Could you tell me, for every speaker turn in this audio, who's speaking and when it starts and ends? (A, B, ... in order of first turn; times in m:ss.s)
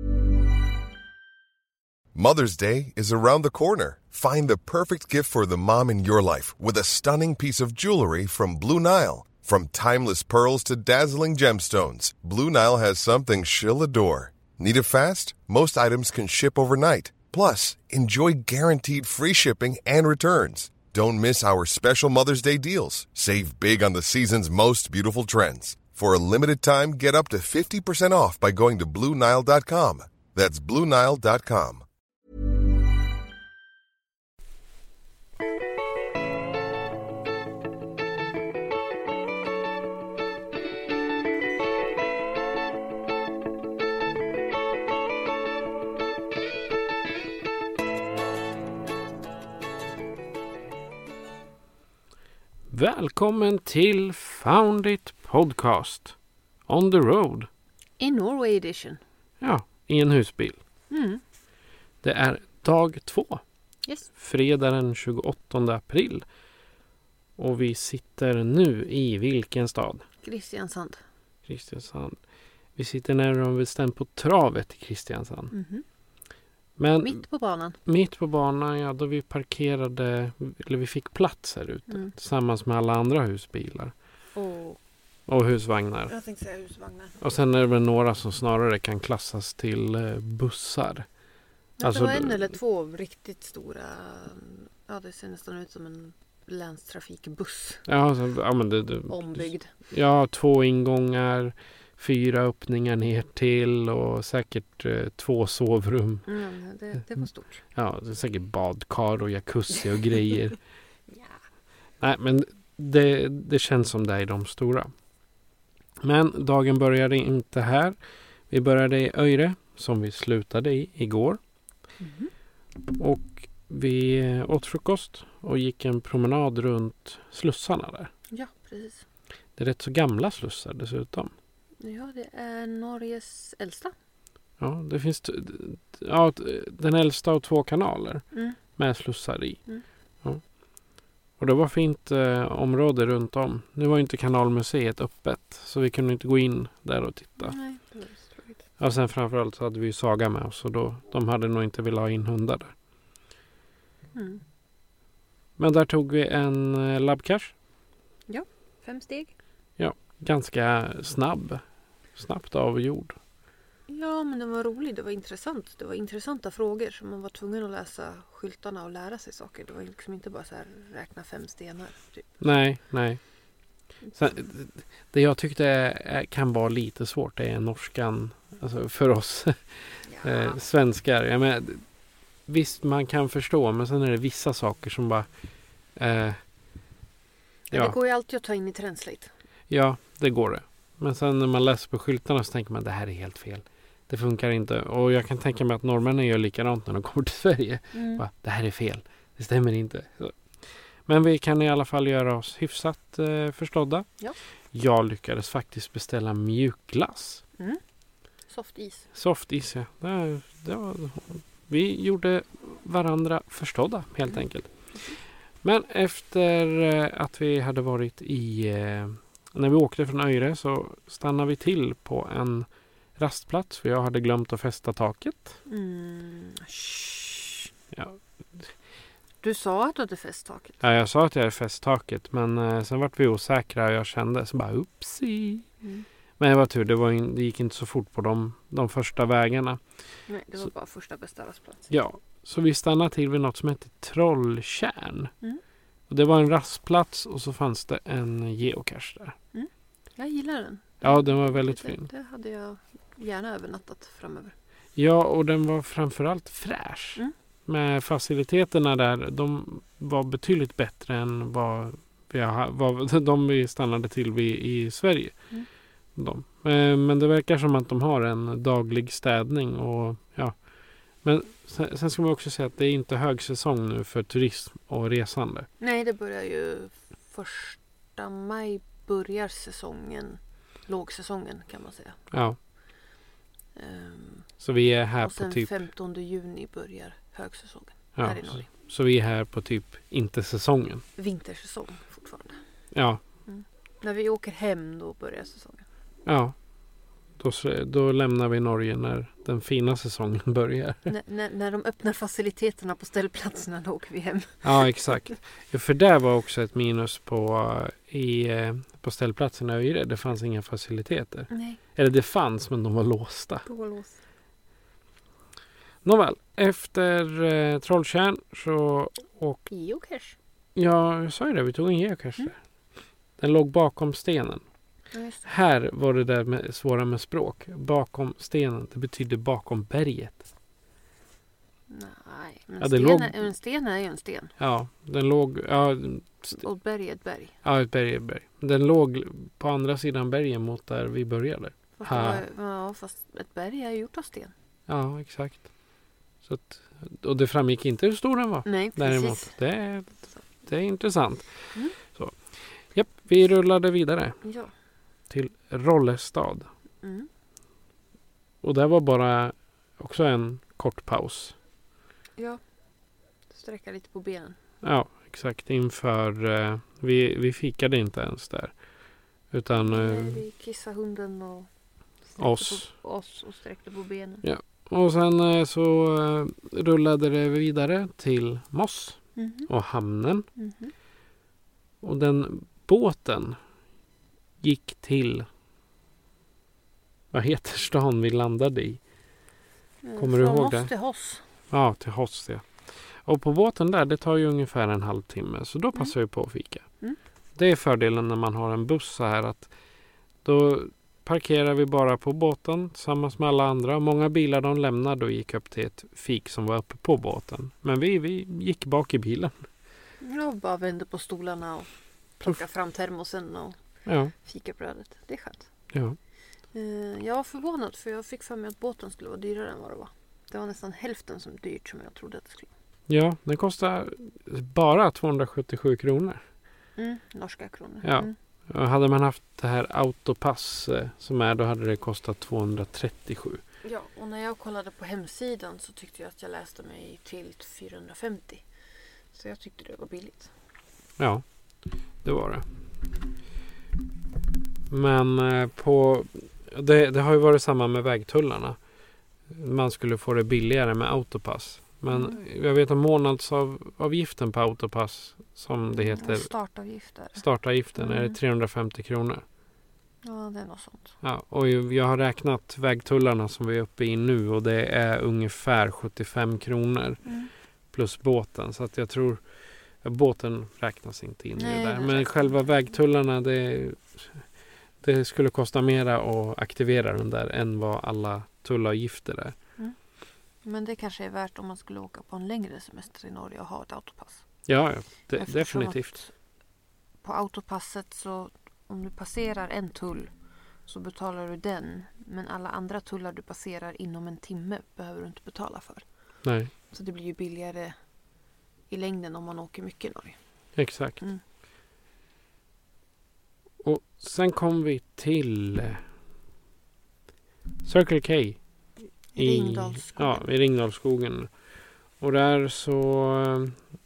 0:02.2-0:31.8 A
0:52.7-0:56.2 B
0:56.7-0:57.5 B
0:58.0-0:59.0 C
0:59.4-1:00.6 B
1:00.9-1:01.2 C
1:02.0-1:03.4 B
1:04.2-1:06.2 B
1:07.4-1:10.0 B
1:10.2-1:11.0 C
1:11.5-1:12.2 B
1:12.8-1:15.5 B
1:15.5-1:15.8 C
1:16.8-1:17.2 B
1:17.0-1:17.8 C
1:17.8-1:23.9 B
1:21.9-1:22.1 C
1:24.4-1:24.8 C
1:25.3-1:26.1 B
1:26.1-1:27.2 C
1:27.2-1:31.1 B
1:31.8-1:37.8 C
1:31.8-1:32.6 B
1:37.9-1:46.3 B
1:39.1-1:39.7 C
1:46.3-1:47.6 C
1:47.8-1:50.6 B
1:51.1-1:51.4 C
1:52.0-1:54.9 B
1:56.0-1:58.0 B
1:58.5-2:01.4 B
2:02.0-2:02.3 C
2:02.9-2:08.1 B
2:08.3-2:09.0 C
2:09.6-2:11.3 B
2:11.8-2:13.9 C
2:14.6-2:19.7 B
2:18.3-2:18.6 C
2:20.2-2:27.6 B
2:27.4-2:28.6 C
2:28.8-2:32.7 B
2:34.1-2:34.4 C
2:35.6-2:37.5 B
2:38.3-2:39.3 C
2:39.8-2:41.6 B
2:42.1-2:43.2 B
2:43.9-2:52.6 C
2:52.4-2:53.2 B
2:54.1-3:01.8 B
3:00.1-3:00.6 C
3:02.5-3:05.3 B
3:06.0-3:06.4 B
3:07.7-3:09.3 C
3:09.7-3:20.4 B
3:17.9-3:18.2 C
3:21.1-3:24.1 B
3:24.7-3:27.4 B
3:28.5-3:29.1 C
3:29.1-3:34.9 B
3:34.3-3:35.2 C
3:35.6-3:45.6 B
3:45.7-3:47.7 C
3:47.9-3:48.7 B
3:49.4-3:50.9 C
3:50.8-3:55.7 B
3:56.4-3:59.8 B
4:00.3-4:01.9 C
4:01.9-4:05.3 B
4:06.1-4:09.4 B
4:09.5-4:14.6 C
4:11.0-4:12.1 B
4:15.0-4:25.5 B
4:26.2-4:30.6 B
4:31.2-4:35.7 B
4:35.8-4:42.2 C
4:42.3-4:42.6 B
4:43.8-4:44.5 C
4:44.6-4:45.7 B
4:45.2-4:48.7 C
4:48.2-4:51.0 B
4:51.2-4:52.6 C
4:52.9-4:53.2 B
4:53.4-4:55.9 C
4:56.3-4:56.6 B
4:57.4-5:01.1 B
5:01.1-5:04.9 C
5:04.6-5:13.7 B
5:11.5-5:11.8 C
5:13.7-5:14.2 C
5:16.0-5:19.7 B
5:19.7-5:20.4 C
5:20.8-5:22.6 B
5:23.4-5:24.6 B
5:25.1-5:25.5 C
5:25.4-5:30.5 B
5:31.9-5:34.5 C
5:32.8-5:33.4 B
5:34.6-5:36.6 B
5:36.5-5:37.5 C
5:37.6-5:42.4 B
5:42.0-5:44.5 C
5:44.9-5:45.7 B
5:46.4-5:54.4 B
5:48.6-5:49.6 C
5:54.4-5:54.7 C
5:55.3-5:56.7 B
5:57.0-5:57.3 C
5:58.6-6:01.6 B
6:03.5-6:04.6 C
6:04.8-6:08.8 B
6:09.5-6:10.4 B
6:09.8-6:11.7 C
6:12.2-6:14.4 C
6:12.4-6:12.9 B
6:14.4-6:20.5 B
6:19.4-6:19.7 C
6:20.6-6:20.9 C
6:22.0-6:23.6 B
6:24.6-6:25.5 B
6:27.3-6:29.0 B
6:30.0-6:31.4 C
6:30.2-6:30.9 B
6:31.7-6:32.7 B
6:33.2-6:36.8 B
6:37.6-6:39.7 B
6:40.4-6:49.6 B
6:50.2-6:51.9 C
6:52.4-6:53.8 C
6:54.1-6:54.3 B
6:54.4-6:55.7 C
6:55.9-6:56.2 B
6:56.7-7:02.7 C
7:03.1-7:06.4 B
7:07.0-7:08.3 C
7:08.0-7:13.6 B
7:13.8-7:18.6 C
7:19.3-7:20.5 C
7:21.2-7:21.4 B
7:22.2-7:22.6 B
7:24.9-7:28.8 B
7:29.5-7:36.5 B
7:32.1-7:32.4 C
7:35.9-7:37.4 C
7:37.4-7:39.4 B
7:38.0-7:38.4 C
7:40.2-7:41.1 C
7:41.2-7:47.2 B
7:47.2-7:47.5 C
7:47.9-7:49.4 B
7:50.0-7:54.4 B
7:51.6-7:52.7 C
7:55.0-7:59.6 B
8:00.6-8:04.5 C
8:04.7-8:06.2 B
8:05.3-8:06.3 C
8:07.2-8:10.3 C
8:10.8-8:16.1 C
8:16.4-8:16.7 B
8:16.9-8:17.9 C
8:18.9-8:20.4 C
8:20.8-8:21.2 B
8:23.8-8:26.0 B
8:27.8-8:28.6 B
8:29.3-8:30.4 C
8:29.3-8:31.5 B
8:32.2-8:33.8 B